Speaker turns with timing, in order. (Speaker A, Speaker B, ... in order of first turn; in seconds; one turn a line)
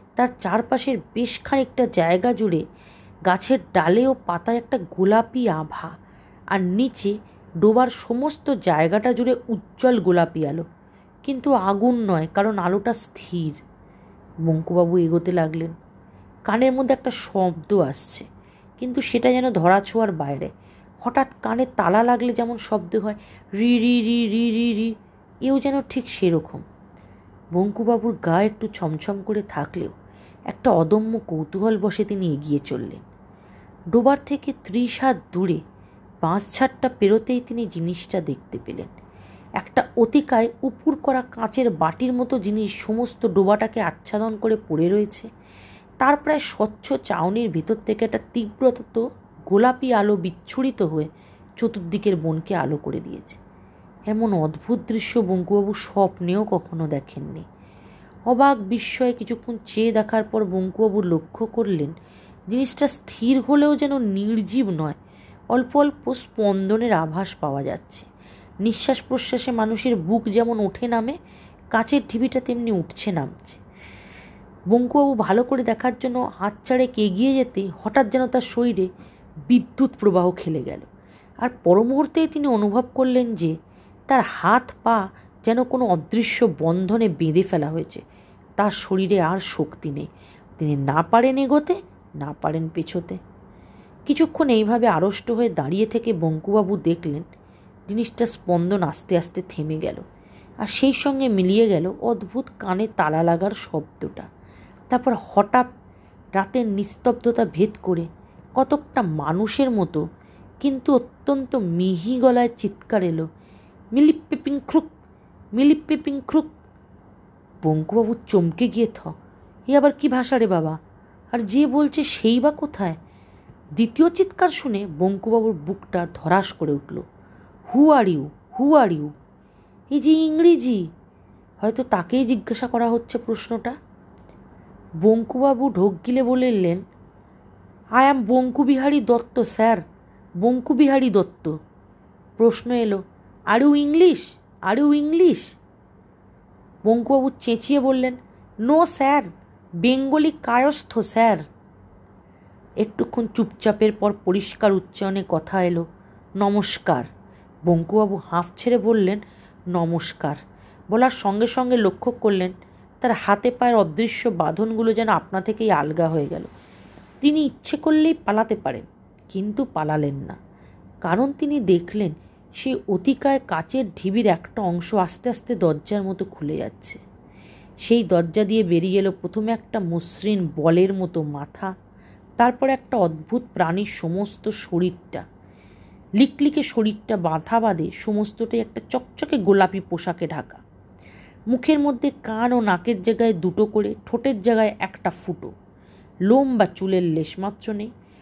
Speaker A: 0.2-2.6
Speaker A: 3.3-5.9
Speaker A: 6.5-7.1
Speaker A: 7.6-10.6
Speaker A: 11.2-13.6
Speaker A: 14.4-15.7
Speaker A: 16.5-18.2
Speaker A: 18.8-20.5
Speaker A: 21.0-24.9
Speaker A: 25.4-26.6
Speaker A: 27.6-29.9
Speaker A: 30.5-33.0
Speaker A: 33.9-35.6
Speaker A: 36.2-38.9
Speaker A: 39.6-45.3
Speaker A: 46.0-53.4
Speaker A: 54.1-57.5
Speaker A: 58.3-61.9
Speaker A: 62.5-65.0
Speaker A: 65.5-68.0
Speaker A: 68.6-71.2
Speaker A: 71.7-73.6
Speaker A: 74.7-78.9
Speaker A: 79.5-80.8
Speaker A: 81.4-83.5
Speaker A: 84.1-88.0
Speaker A: 88.6-90.1
Speaker A: 90.6-93.2
Speaker A: 94.1-97.2
Speaker A: 97.9-100.0
Speaker A: 100.6-104.3
Speaker A: 104.9-105.7
Speaker A: 106.4-108.0
Speaker A: 108.6-110.0
Speaker A: 110.6-113.2
Speaker A: 113.9-114.9
Speaker A: 115.5-116.5
Speaker A: 117.6-119.1
Speaker A: 119.7-120.8
Speaker A: 121.3-123.0
Speaker A: 123.8-127.0
Speaker A: 127.7-129.1
Speaker A: 129.9-130.8
Speaker A: 131.6-133.8
Speaker A: 135.0-136.8
Speaker A: 138.0-139.8
Speaker A: 140.4-141.5
Speaker A: 142.4-145.5
Speaker A: 146.8-149.3
Speaker A: 149.8-151.4
Speaker A: 152.8-155.8
Speaker A: 156.4-157.1
Speaker A: 157.7-159.2
Speaker A: 159.7-160.4
Speaker A: 160.9-166.5
Speaker A: 167.2-170.4
Speaker A: 171.1-177.0
Speaker A: 177.8-181.7
Speaker A: 182.4-185.2
Speaker A: 186.2-190.6
Speaker A: 191.5-195.5
Speaker A: 196.3-197.9